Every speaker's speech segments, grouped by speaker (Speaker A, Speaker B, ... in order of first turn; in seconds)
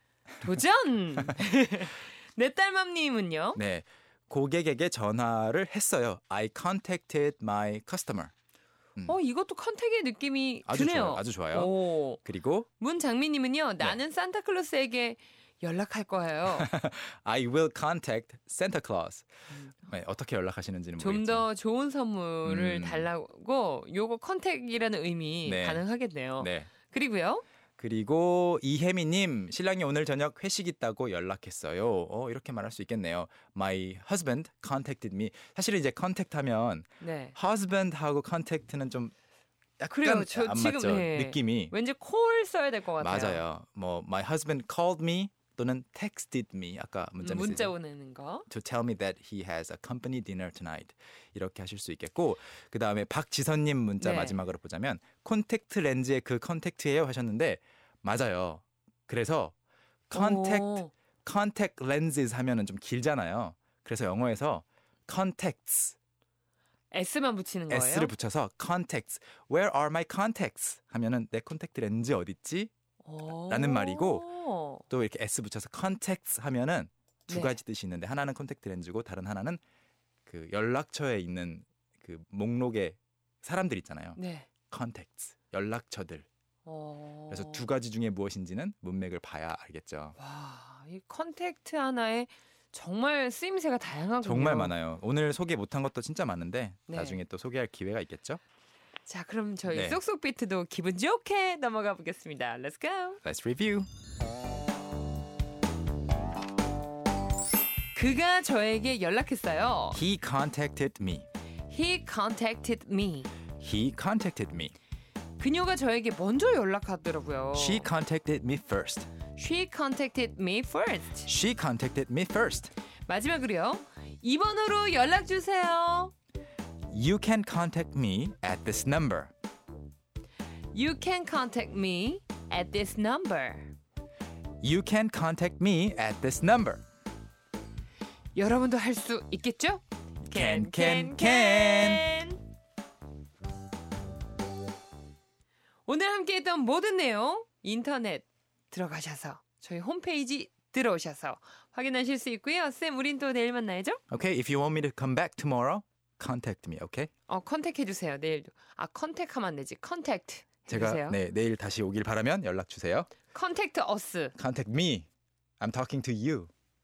Speaker A: 0.4-3.6, 9.1-12.2, 12.8-16.7, 21.0-27.4, 37.0-37.3, 40.0-43.4, 47.2-48.5, 54.0-54.4, 60.1-60.9, 66.9-68.1, 73.0-74.8, 77.3-77.6, 84.2-84.5, 86.7-87.6, 90.2-94.7, 96.9-97.2, 99.0-103.2, 107.9-110.0, 111.7-113.3, 115.4-117.9, 119.3-121.3, 123.0-126.1, 130.7-133.7, 138.3-142.4, 145.8-154.0, 157.3-161.2, 163.3-164.3
Speaker B: 3.5-8.3, 10.7-12.7, 16.4-19.3, 19.8-21.4, 22.4-23.1, 25.4-25.8, 26.4-26.7, 27.8-39.1, 39.8-41.7, 43.0-47.7, 48.5-59.5, 60.1-66.0, 67.7-72.7, 73.4-74.3, 74.9-79.6, 80.2-86.3, 87.3-90.2, 94.2-98.4, 99.7-100.0, 103.2-103.9, 109.9-111.2, 113.6-114.7, 117.5-119.1, 121.2-122.7, 126.9-129.3, 134.6-136.8, 140.2-142.1, 154.1-157.1, 160.7-163.1, 164.4-165.1, 165.6-166.5